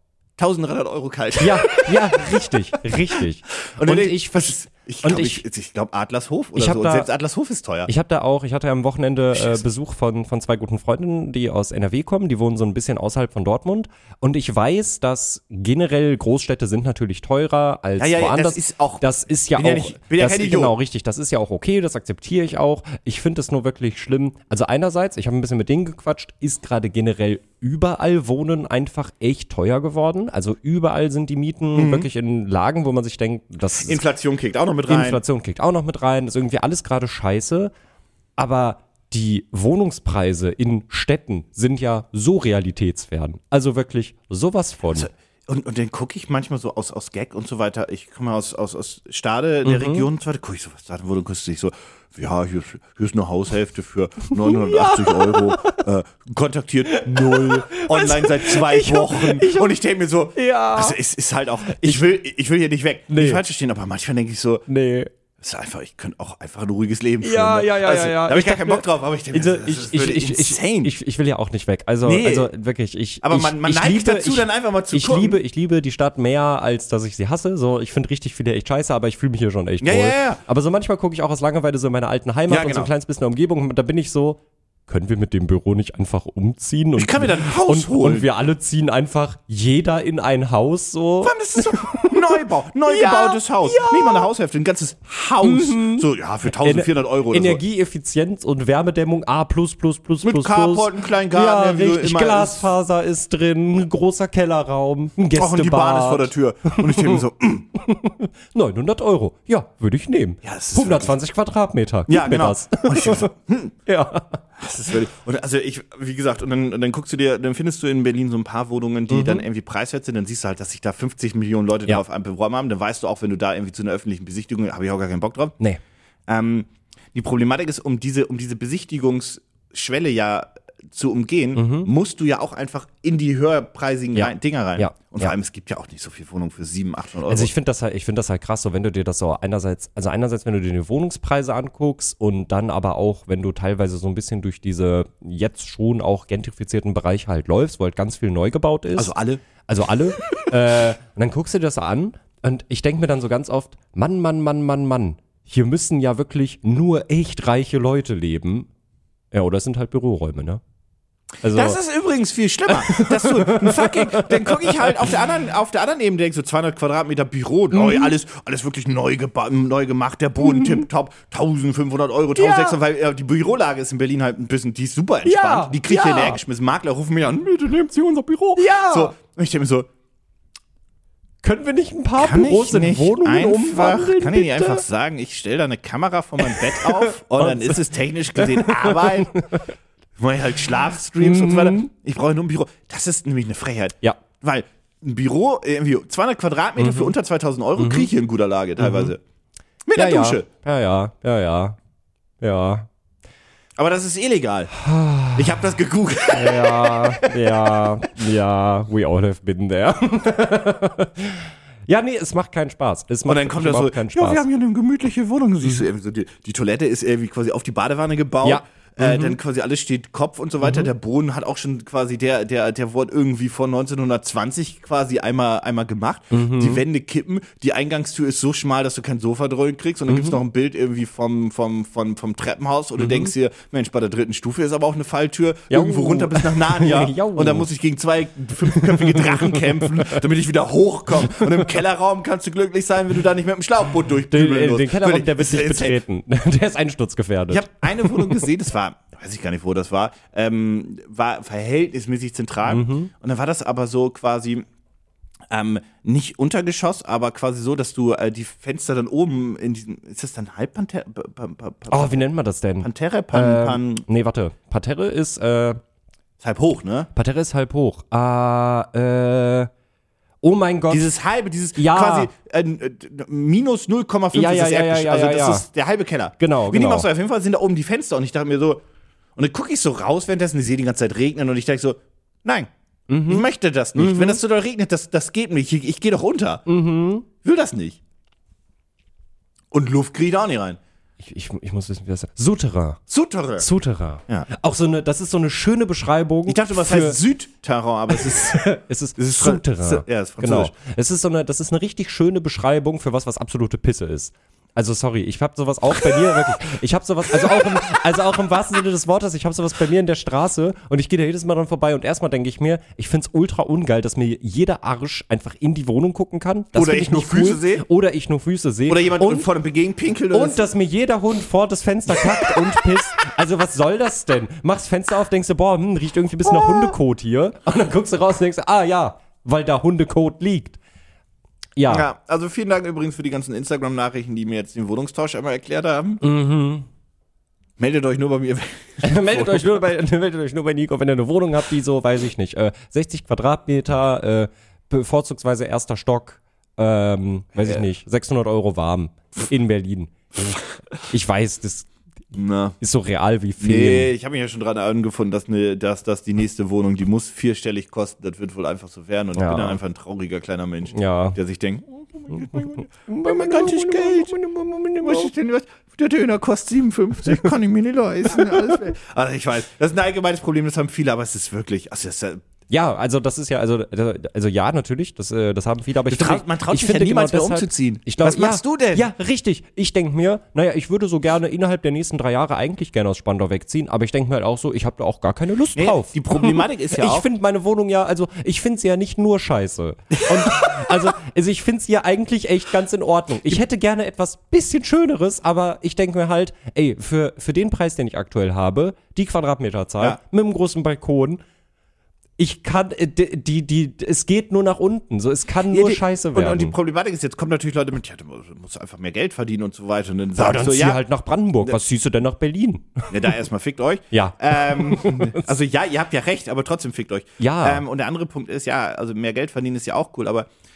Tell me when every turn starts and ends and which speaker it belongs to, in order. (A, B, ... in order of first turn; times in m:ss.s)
0:00.4-0:07.9 A
0:01.4-0:05.4 B
0:06.6-0:07.1 B
0:07.9-0:34.0 B
0:09.3-0:09.6 A
0:18.0-0:20.8 A
0:31.8-0:32.1 A
0:33.8-0:35.2 A
0:34.9-0:37.7 B
0:38.4-0:45.1 B
0:44.9-1:04.6 A
0:49.6-0:50.1 B
0:54.3-0:55.8 B
0:56.9-0:59.7 B
1:00.4-1:01.0 B
1:01.7-1:02.0 B
1:03.1-1:03.4 B
1:04.7-1:05.1 B
1:05.4-1:10.9 A
1:07.2-1:34.3 B
1:12.0-1:12.5 A
1:13.2-1:15.4 A
1:19.8-1:20.4 A
1:22.5-1:22.9 A
1:27.0-1:28.3 A
1:31.2-1:37.6 A
1:35.4-1:47.2 B
1:40.2-1:42.7 A
1:45.4-1:47.7 A
1:47.8-1:53.3 B
1:50.4-1:51.2 A
1:52.1-1:53.7 A
1:53.9-1:54.4 B
1:54.6-2:05.6 A
1:59.1-1:59.4 B
2:06.3-2:17.5 A
2:11.6-2:11.9 B
2:14.2-2:15.3 B
2:17.3-2:29.1 B
2:29.0-2:29.4 A
2:29.7-2:38.7 B
2:39.3-2:40.6 B
2:41.4-2:41.8 B
2:41.5-2:59.9 A
2:42.7-2:45.2 B
2:47.7-2:48.1 B
2:50.4-2:50.8 B
2:52.4-2:52.8 B
2:55.2-2:56.4 B
2:58.6-2:59.1 B
3:01.4-3:04.8 B
3:02.2-3:09.4 A
3:06.4-3:07.8 B
3:08.4-3:09.7 B
3:10.2-3:19.2 A
3:11.2-3:11.8 B
3:16.8-3:17.1 B
3:17.8-3:18.1 B
3:18.8-3:19.1 B
3:19.9-3:20.5 A
3:20.0-3:21.8 B
3:22.4-3:22.9 B
3:23.8-3:24.7 A
3:24.8-3:25.6 B
3:25.4-3:27.8 A
3:26.3-3:34.4 B
3:33.3-4:06.0 A
3:38.4-3:39.4 B
3:40.6-3:40.9 B
3:46.3-3:46.8 B
3:50.1-3:50.4 B
3:53.0-3:53.3 B
3:55.7-3:57.7 B
3:58.7-4:00.2 B
4:01.2-4:01.6 B
4:04.3-4:08.5 B
4:07.5-4:14.7 A
4:12.7-4:13.1 B
4:15.5-4:22.3 A
4:21.9-4:25.8 B
4:22.8-4:24.0 A
4:26.4-4:27.1 A
4:27.2-4:29.7 B
4:30.4-4:31.1 B
4:30.9-4:38.8 A
4:31.8-4:32.3 B
4:34.3-4:35.6 B
4:36.4-4:37.1 B
4:39.4-4:42.7 A
4:43.1-4:44.4 B
4:43.3-4:46.6 A
4:46.7-4:47.3 B
4:47.4-4:48.0 A
4:49.7-4:50.8 A
4:51.2-4:53.0 B
4:53.1-4:53.7 A
4:53.6-4:57.2 B
4:56.5-4:58.7 A
4:58.1-5:19.5 B
4:59.2-5:00.7 A
5:07.4-5:07.9 A
5:16.7-5:17.8 A
5:18.9-5:20.7 A
5:20.3-5:30.8 B
5:22.2-5:22.6 A
5:26.5-5:27.0 A
5:31.8-5:32.1 B
5:31.9-5:36.2 A
5:36.2-5:36.9 B
5:37.8-5:39.7 A
5:39.0-5:51.9 B
5:52.3-5:52.8 A
5:52.8-5:54.1 B
5:53.6-6:04.4 A
5:59.4-5:59.8 B
6:00.9-6:01.4 B
6:02.6-6:05.3 B
6:05.0-6:12.4 A
6:08.3-6:08.7 B
6:12.7-6:41.4 B
6:16.1-6:19.1 A
6:25.8-6:27.3 A
6:30.3-6:31.0 A
6:42.4-6:46.8 B
6:45.7-6:51.0 A
6:50.4-6:53.1 B
6:53.1-7:00.5 A
6:54.1-6:55.5 B
6:57.4-6:57.8 B